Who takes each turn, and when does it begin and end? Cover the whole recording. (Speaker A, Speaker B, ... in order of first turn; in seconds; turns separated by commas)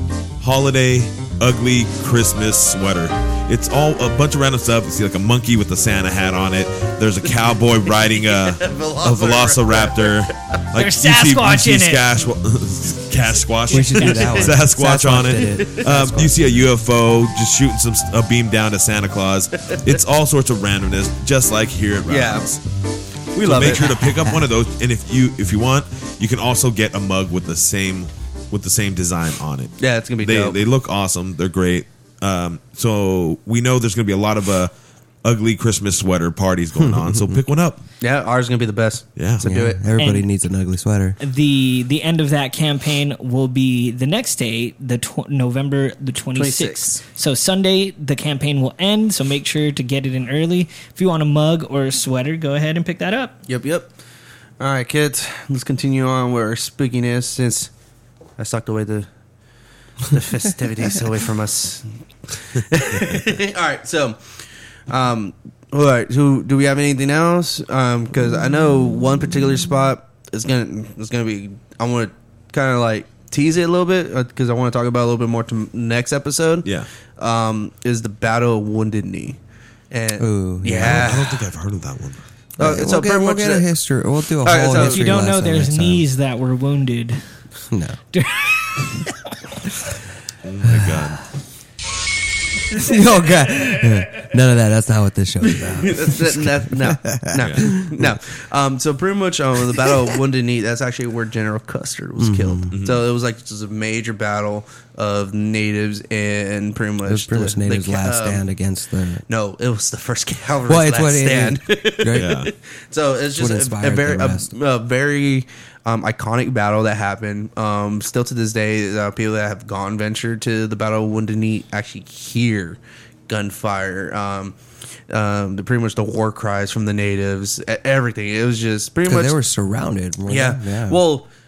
Speaker A: 0.4-22.6, Speaker B: 8.0-10.3, Speaker C: 10.7-12.0, Speaker D: 13.7-16.7, Speaker B: 13.8-14.5, Speaker C: 13.8-14.4, Speaker B: 22.1-22.4, Speaker B: 23.4-24.0, Speaker A: 23.4-34.7, Speaker D: 23.6-24.5, Speaker B: 29.8-30.6, Speaker A: 35.2-37.8, Speaker D: 36.8-37.4, Speaker B: 38.0-39.8, Speaker A: 39.1-39.5, Speaker D: 39.4-41.2, Speaker C: 40.0-40.3, Speaker C: 41.2-53.4, Speaker B: 46.3-47.0, Speaker B: 53.5-53.9, Speaker B: 54.6-57.7, Speaker B: 58.4-59.1, Speaker B: 60.1-64.4, Speaker B: 64.9-79.4, Speaker B: 79.9-81.4, Speaker D: 80.2-81.3, Speaker A: 80.6-82.2, Speaker B: 82.6-83.6, Speaker D: 82.6-86.0, Speaker B: 84.4-85.1, Speaker C: 84.7-87.2, Speaker D: 87.7-88.0, Speaker C: 88.1-89.4, Speaker A: 90.4-91.2, Speaker D: 90.6-91.1, Speaker D: 92.7-98.2, Speaker B: 95.5-108.4, Speaker A: 97.4-97.7, Speaker D: 102.2-102.7, Speaker A: 102.7-103.1, Speaker D: 107.0-109.2, Speaker B: 109.3-124.6, Speaker D: 110.6-112.5, Speaker A: 112.1-112.5, Speaker D: 113.4-114.5, Speaker B: 125.1-129.3, Speaker D: 129.1-131.0, Speaker B: 130.3-131.3